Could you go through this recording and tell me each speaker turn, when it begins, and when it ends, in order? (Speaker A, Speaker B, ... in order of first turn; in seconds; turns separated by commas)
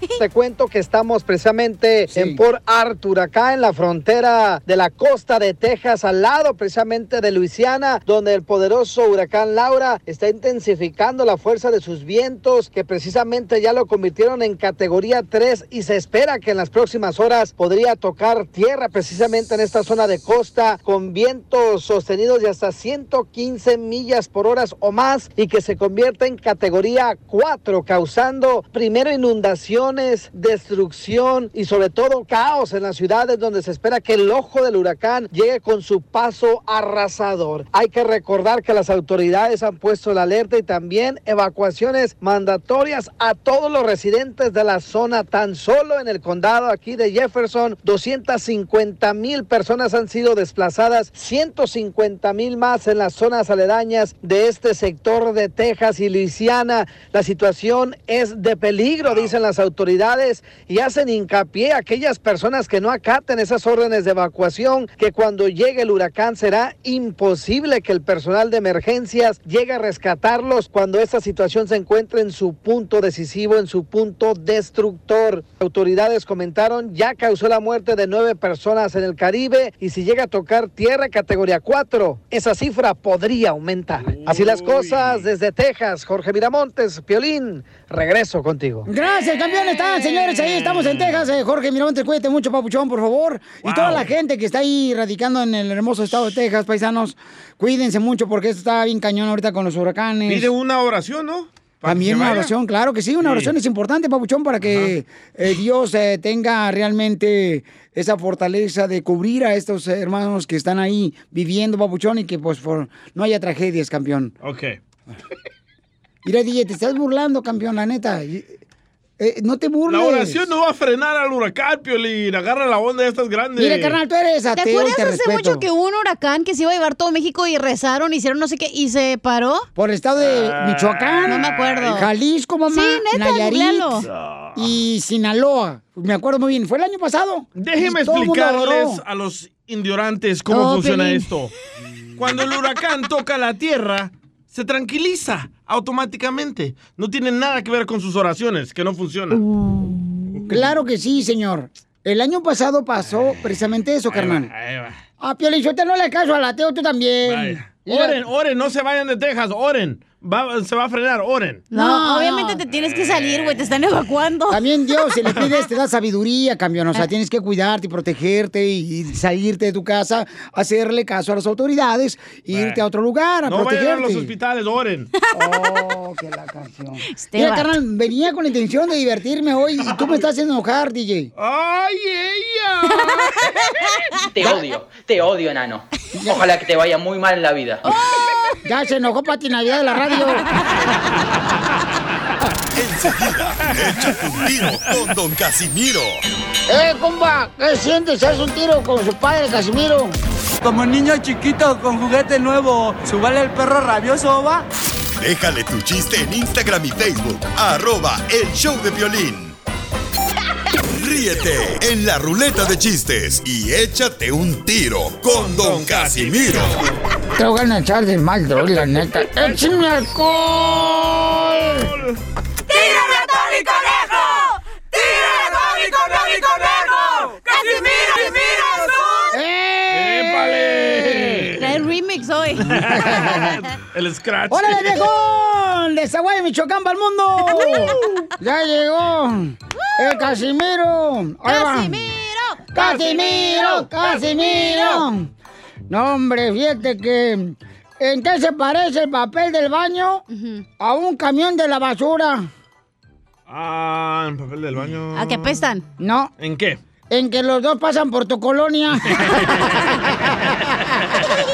Speaker A: 0.2-88.9, Speaker B: 2.1-2.4, Speaker C: 59.1-59.3, Speaker C: 84.0-85.3, Speaker B: 88.9-100.5, Speaker C: 90.8-91.2, Speaker C: 93.6-94.1, Speaker C: 100.3-102.5, Speaker B: 101.8-114.3, Speaker C: 103.2-103.5, Speaker C: 104.6-105.0, Speaker C: 114.4-114.8, Speaker B: 116.2-118.5, Speaker B: 119.2-120.5, Speaker C: 119.9-124.0, Speaker B: 123.6-125.7, Speaker D: 124.6-129.7, Speaker B: 129.8-133.9, Speaker C: 130.2-131.8, Speaker D: 131.3-132.1, Speaker D: 132.7-134.1, Speaker C: 134.1-134.6, Speaker B: 134.6-139.0, Speaker C: 137.6-141.5, Speaker D: 140.5-141.3, Speaker C: 142.2-149.4, Speaker B: 150.5-154.5, Speaker C: 154.1-155.0, Speaker B: 155.2-158.2, Speaker C: 157.3-161.7, Speaker D: 161.7-164.6, Speaker B: 161.7-162.6, Speaker C: 163.0-163.6, Speaker B: 164.5-174.3, Speaker C: 172.5-172.8, Speaker C: 173.5-175.1, Speaker B: 175.3-181.3, Speaker D: 177.1-177.7, Speaker C: 181.4-183.1, Speaker E: 184.3-187.8, Speaker B: 186.2-186.4, Speaker D: 187.8-188.6, Speaker B: 188.6-190.4, Speaker F: 192.8-196.2, Speaker B: 196.7-200.2, Speaker G: 200.6-204.7, Speaker F: 205.2-209.6, Speaker F: 211.0-216.8, Speaker C: 215.3-217.0, Speaker B: 217.4-221.9, Speaker C: 218.9-219.6, Speaker C: 221.7-222.2, Speaker C: 225.3-228.9, Speaker D: 227.8-228.1, Speaker B: 229.3-231.5, Speaker C: 229.9-231.8, Speaker D: 231.6-232.8, Speaker C: 232.7-235.1, Speaker B: 232.8-233.6, Speaker B: 234.5-242.0, Speaker D: 237.6-238.0, Speaker D: 239.9-240.3, Speaker D: 241.5-245.1, Speaker B: 242.7-245.3, Speaker B: 245.9-250.2, Speaker D: 250.3-250.7, Speaker B: 250.8-252.5, Speaker C: 253.5-255.6, Speaker D: 255.2-255.8, Speaker B: 256.0-256.3, Speaker C: 256.4-256.8, Speaker B: 257.1-259.5, Speaker C: 259.1-259.6